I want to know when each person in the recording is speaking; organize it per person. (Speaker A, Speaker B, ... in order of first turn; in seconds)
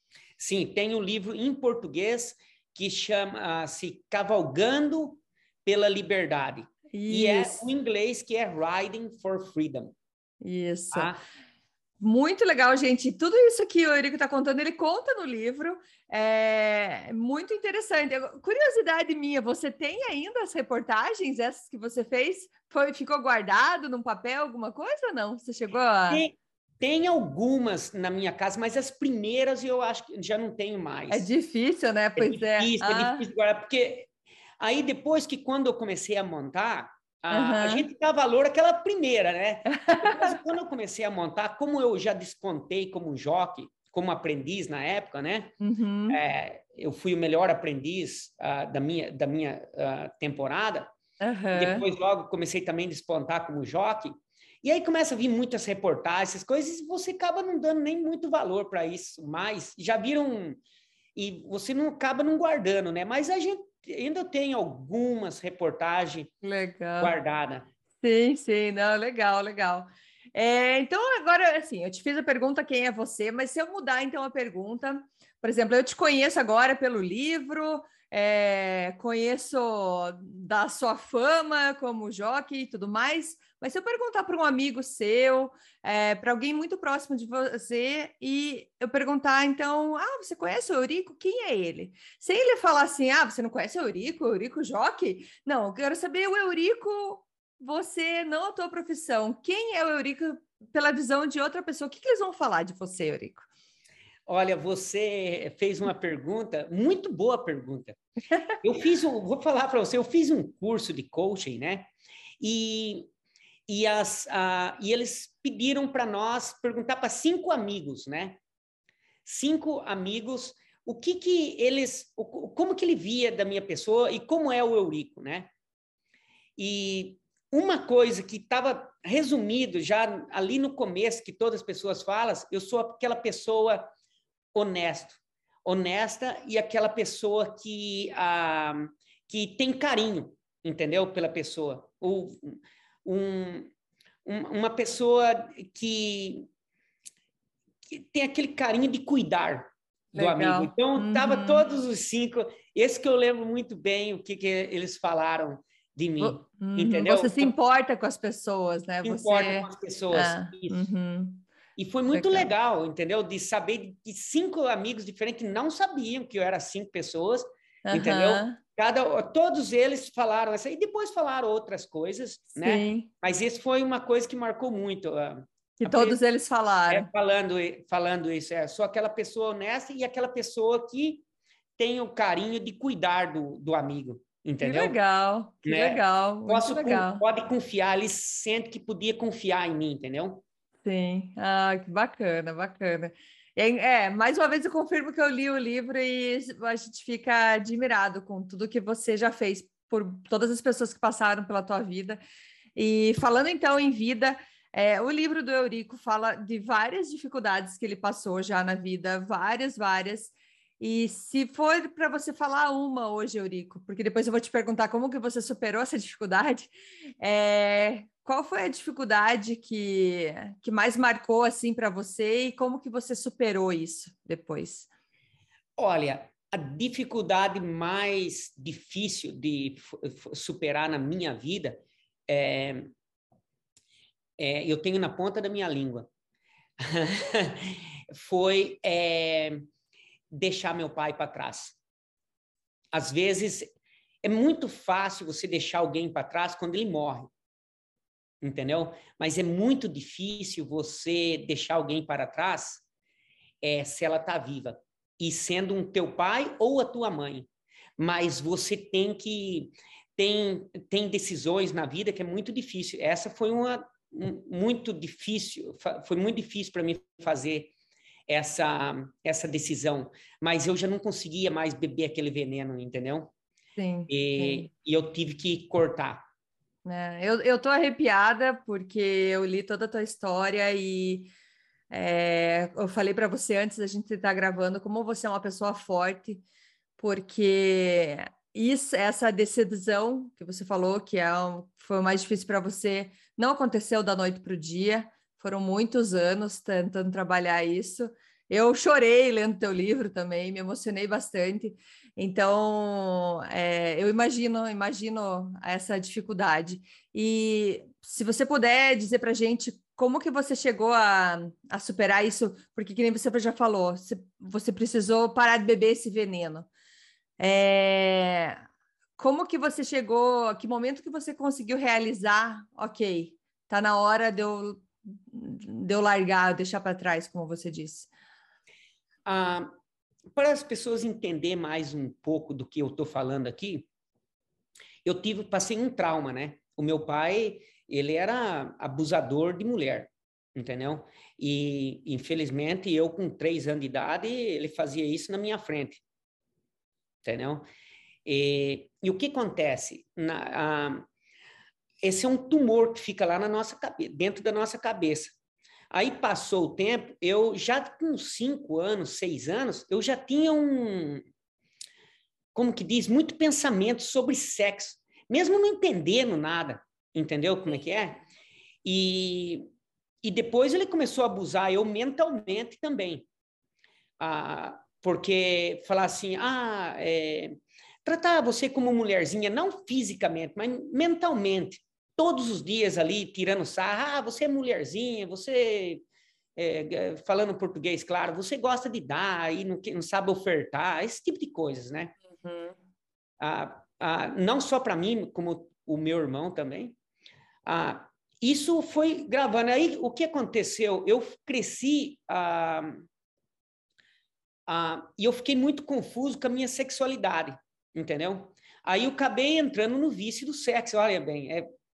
Speaker A: 0.4-9.9, 10.9-11.2, 26.1-31.3, 32.2-34.1, 34.6-45.5, 46.1-50.9, 51.5-60.6, 61.2-66.3, 67.0-67.7, 104.3-108.0, 108.6-113.1, 113.7-118.4, 119.3-125.5, 126.6-133.9, 134.5-143.7, 144.2-146.5, 147.9-157.5, 159.0-160.8, 161.8-176.2, 176.9-181.2, 181.8-185.0, 185.6-190.4, 225.8-232.9, 234.4-236.1, 236.8-239.7, 240.3-241.8, 242.9-247.3, 248.4-252.8, 253.6-267.7, 268.3-273.3, 274.1-276.2, 329.3-329.7, 330.3-333.9, 335.1-346.0, 347.2-347.6, 348.2-351.1, 352.0-355.3, 355.9-361.3, 362.5-368.2, 368.8-369.6, 370.2-373.3, 374.2-386.0, 386.6-392.1, 393.4-397.0, 397.7-403.1, 404.7-411.7
Speaker B: 6.9-7.6, 10.4-11.1, 12.0-26.2, 31.1-33.3, 37.3-37.9, 39.9-40.3, 45.6-46.2, 51.2-51.9, 66.4-67.2, 68.0-103.5, 150.2-151.7, 156.2-161.5, 162.1-162.5, 167.8-168.6, 172.6-173.1, 175.8-177.1, 184.6-187.2, 190.8-202.2, 202.8-224.9, 273.8-274.7, 276.9-281.3, 281.9-286.4, 287.0-316.7, 317.4-318.6, 319.2-328.1, 392.4-392.8